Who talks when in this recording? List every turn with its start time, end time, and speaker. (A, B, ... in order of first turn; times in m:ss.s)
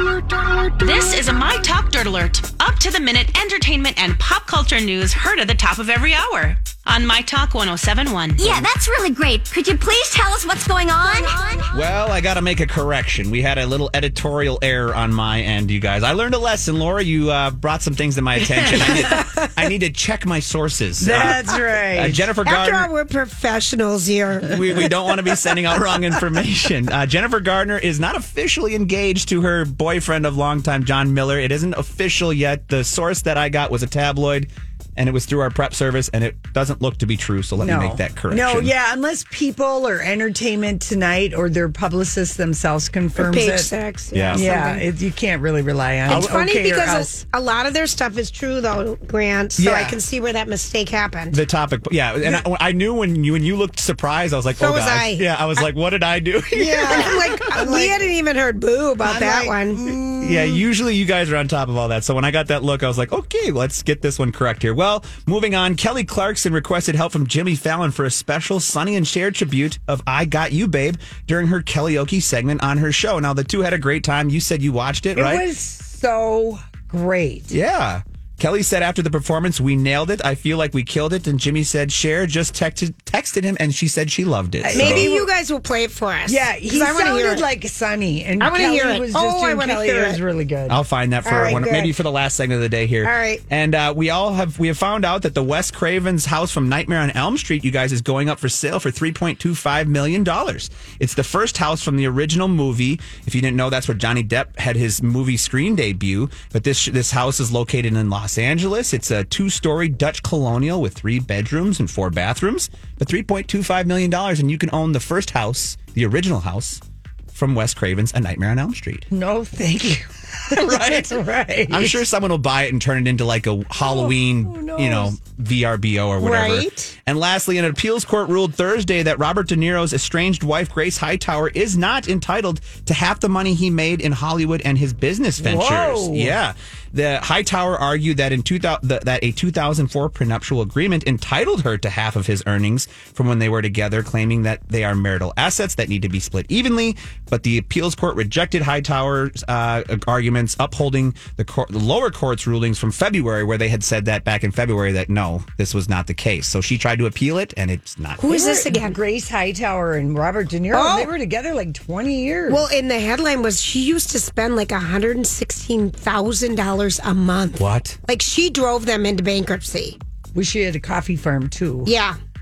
0:00.8-0:08.6 A
0:08.4-0:11.6 B
0:11.7-0:22.9 C
0:18.5-0:19.5 D
0:21.0-0:22.3 D
0:22.4-0:24.9 E
0:24.5-0:38.7 C
0:37.6-0:43.7 D
0:43.2-0:44.9 E
0:44.1-0:44.5 C
0:44.3-0:47.1 D
0:46.1-0:51.4 E
0:49.6-0:50.0 C
0:51.3-0:58.0 C
0:54.6-0:55.6 E
0:56.6-0:59.8 E
0:57.6-0:57.9 D
0:59.0-1:00.6 D
0:59.9-1:15.5 C
1:15.2-1:17.5 D
1:17.5-1:25.1 C
1:24.6-1:25.3 D
1:24.7-1:27.5 E
1:26.3-1:30.8 D
1:28.4-1:30.2 E
1:30.7-1:56.8 C
1:31.2-1:32.0 E
1:33.0-1:33.4 E
1:57.3-1:59.1 C
1:59.1-2:02.0 D
2:00.5-2:38.3 C
2:03.8-2:05.2 D
2:06.2-2:06.9 E
2:15.4-2:16.4 D
2:38.2-2:42.6 D
2:38.2-2:39.0 E
2:40.7-2:41.1 E
2:42.5-2:50.0 E
2:47.6-2:48.0 C
2:50.3-2:51.9 D
2:51.8-2:52.2 E